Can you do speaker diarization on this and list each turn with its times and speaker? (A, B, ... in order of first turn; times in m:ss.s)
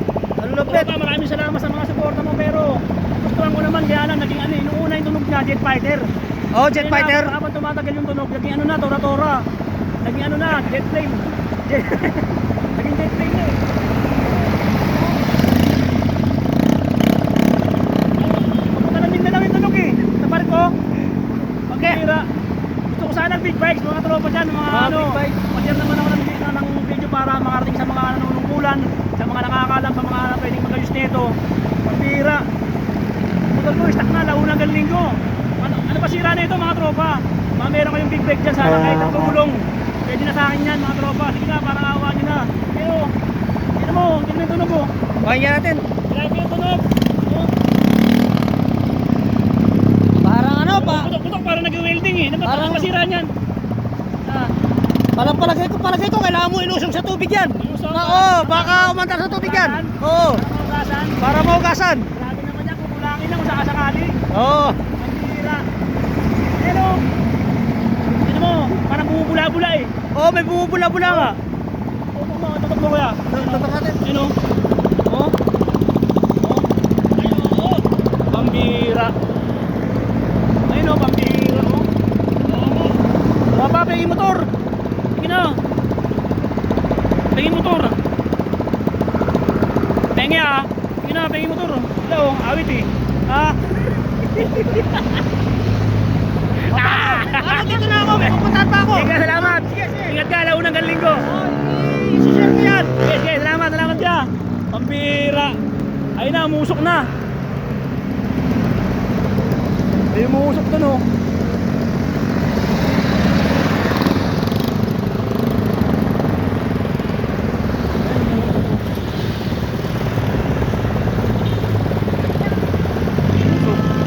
0:00.4-0:00.9 A
0:00.6-0:06.1 B
0:06.5-0:07.3 A
0:06.7-0:09.5 B
0:10.0-0:13.6 B
0:18.2-0:20.8 B
0:21.7-0:22.0 A
0:21.7-0:22.3 B
0:22.9-0:32.5 B
0:24.7-0:25.4 A
0:33.5-0:43.1 B
0:38.8-0:39.3 A
0:43.8-0:44.9 B
0:45.2-0:45.9 A
0:46.1-0:47.5 B
0:50.1-0:51.1 A
0:50.7-0:53.3 B
0:52.4-0:52.9 A
0:55.2-1:00.4 A
0:57.6-1:01.2 B
1:01.2-1:02.1 A
1:02.1-1:04.2 B
1:04.3-1:04.8 A
1:05.0-1:05.7 B
1:06.6-1:07.1 B
1:08.2-1:09.9 B
1:10.1-1:11.4 A
1:11.0-1:11.4 B
1:12.1-1:14.4 B
1:13.3-1:14.0 A
1:15.1-1:15.4 B
1:16.4-1:19.1 B
1:20.7-1:21.9 B
1:22.5-1:22.9 B
1:23.5-1:24.5 B
1:25.2-1:25.6 B
1:27.3-1:28.0 B
1:30.1-1:33.6 B
1:34.3-1:35.2 B
1:36.7-1:40.2 A
1:36.7-1:38.3 B
1:38.9-1:41.3 B
1:41.2-1:42.9 A
1:42.9-1:45.6 B
1:46.2-1:47.1 B
1:50.1-1:51.1 B
1:58.0-1:58.8 B
2:03.4-2:03.8 B